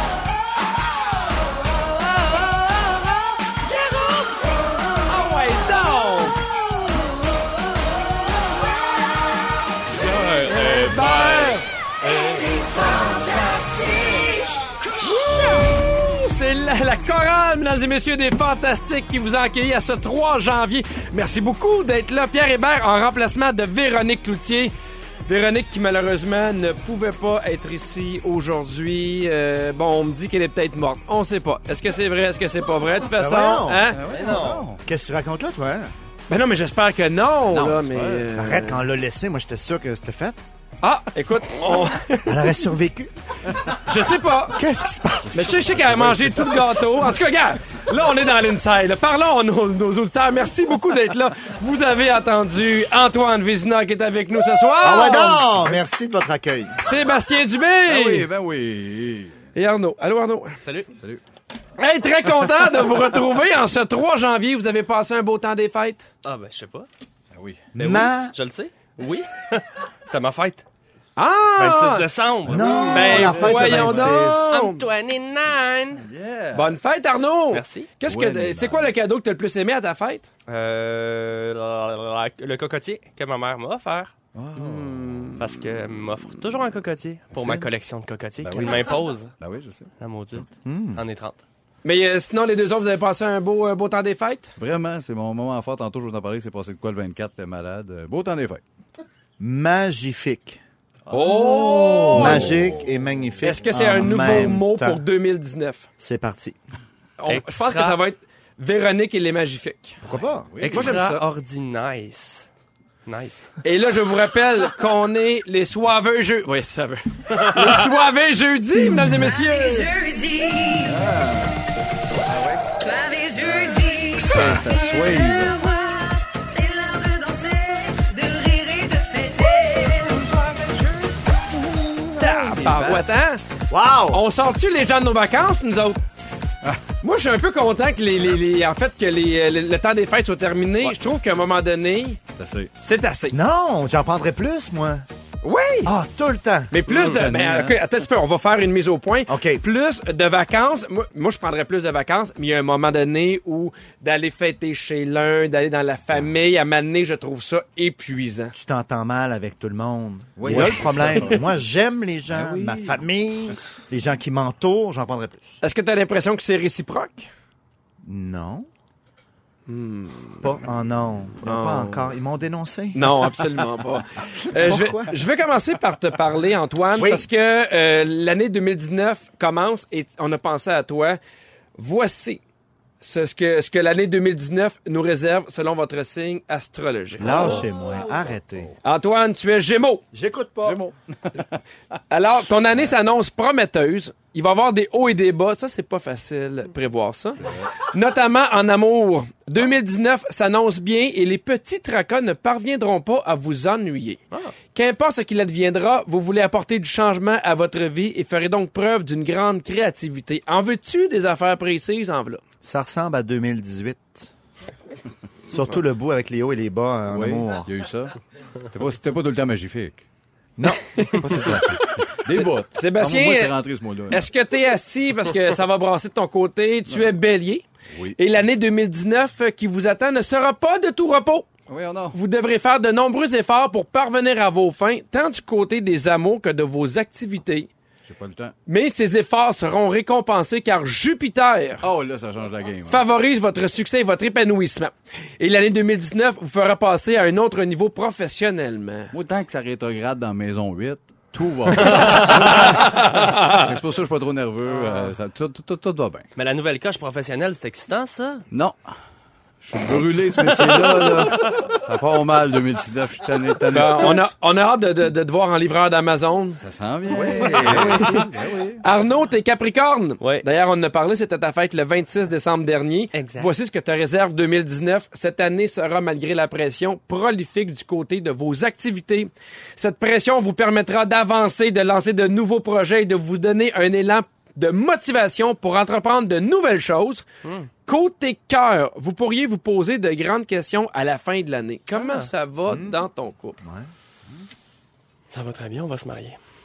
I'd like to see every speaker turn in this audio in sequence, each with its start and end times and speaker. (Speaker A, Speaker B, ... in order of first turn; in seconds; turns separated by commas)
Speaker A: 5.0-6.3, Speaker B: 9.9-12.2, Speaker A: 10.4-11.7, Speaker C: 12.2-14.3, Speaker A: 13.0-14.3, Speaker A: 15.0-24.7, Speaker A: 25.2-34.0, Speaker D: 33.2-33.9, Speaker E: 33.9-34.8, Speaker B: 34.1-34.7, Speaker D: 34.8-35.9, Speaker A: 36.3-38.8, Speaker E: 37.5-38.4, Speaker D: 38.4-40.4, Speaker A: 40.8-42.6, Speaker D: 42.2-43.1, Speaker A: 43.7-44.6, Speaker D: 44.5-45.8, Speaker A: 45.3-55.4, Speaker E: 45.5-46.5, Speaker D: 54.8-56.8, Speaker A: 56.8-58.3, Speaker E: 57.9-59.4, Speaker A: 59.5-60.6, Speaker B: 60.6-60.9, Speaker A: 61.8-66.1, Speaker B: 66.2-66.9, Speaker E: 67.3-67.7, Speaker B: 67.8-70.6, Speaker D: 67.8-68.3, Speaker A: 71.2-72.1, Speaker B: 71.6-76.0, Speaker D: 72.5-74.6, Speaker E: 72.6-74.2, Speaker A: 72.6-74.8, Speaker E: 76.0-76.7, Speaker A: 76.5-80.3, Speaker B: 77.5-77.9, Speaker E: 78.0-78.9, Speaker B: 80.5-84.1, Speaker E: 84.3-85.5, Speaker A: 84.5-85.3, Speaker B: 85.4-89.3, Speaker E: 87.4-87.7, Speaker E: 88.4-89.9, Speaker B: 90.0-91.4, Speaker D: 90.6-91.0, Speaker A: 91.8-94.5, Speaker E: 94.6-98.6, Speaker D: 99.4-100.6, Speaker A: 101.1-102.5, Speaker B: 101.2-101.5, Speaker E: 102.0-102.9, Speaker D: 102.1-105.0, Speaker A: 103.4-105.9, Speaker E: 104.0-104.4, Speaker D: 106.0-106.5, Speaker A: 107.2-110.0, Speaker B: 107.3-108.0, Speaker D: 110.0-110.5, Speaker E: 110.5-111.0, Speaker B: 110.6-112.5, Speaker A: 110.7-111.2, Speaker B: 113.0-113.5, Speaker A: 113.6-119.9, Speaker B: 117.4-117.7, Speaker C: 119.1-121.0, Speaker E: 120.8-121.6, Speaker E: 122.3-122.6, Speaker C: 122.7-130.8, Speaker E: 123.3-125.6, Speaker E: 132.2-133.0, Speaker A: 132.2-133.4, Speaker D: 133.7-134.2, Speaker A: 134.1-136.0, Speaker A: 137.0-142.2, Speaker E: 142.3-142.7, Speaker A: 142.8-143.3, Speaker D: 143.3-145.1, Speaker A: 145.4-145.9, Speaker D: 145.8-146.7, Speaker A: 146.7-158.5, Speaker E: 146.9-147.8, Speaker D: 149.3-149.6, Speaker D: 158.5-165.6, Speaker E: 160.4-161.6, Speaker E: 162.3-163.0, Speaker A: 165.6-167.3, Speaker D: 168.0-168.7, Speaker A: 169.7-170.5, Speaker D: 170.4-173.1, Speaker A: 171.4-172.1, Speaker A: 172.9-181.2, Speaker D: 174.5-175.2, Speaker D: 176.9-177.2, Speaker A: 181.8-182.4, Speaker A: 183.0-187.6, Speaker D: 187.2-188.7, Speaker A: 188.8-190.0, Speaker D: 190.1-190.8, Speaker A: 190.6-190.9, Speaker A: 192.1-204.2, Speaker E: 197.4-197.7, Speaker A: 204.7-212.4, Speaker D: 212.6-214.3, Speaker D: 215.5-217.7, Speaker E: 217.1-220.0, Speaker D: 220.6-221.6, Speaker A: 220.9-221.6, Speaker E: 221.2-224.2, Speaker A: 222.3-223.6, Speaker A: 224.1-227.6, Speaker E: 227.9-228.2, Speaker A: 228.2-231.5, Speaker E: 231.7-232.2, Speaker A: 232.1-237.7, Speaker E: 238.1-238.5, Speaker A: 238.7-241.9, Speaker E: 241.8-243.0, Speaker A: 242.9-249.1, Speaker E: 249.1-256.3, Speaker B: 251.9-252.5, Speaker A: 252.8-253.6, Speaker B: 256.4-258.4, Speaker E: 258.5-258.8, Speaker E: 259.6-264.3, Speaker A: 260.7-261.0, Speaker A: 263.7-266.6, Speaker E: 266.6-268.8, Speaker A: 267.2-268.3, Speaker B: 267.3-267.9, Speaker A: 268.8-287.2, Speaker B: 273.1-273.5, Speaker B: 287.4-287.7, Speaker A: 287.9-293.6, Speaker B: 291.9-292.3, Speaker D: 292.7-293.0, Speaker D: 293.6-293.9, Speaker B: 295.3-296.4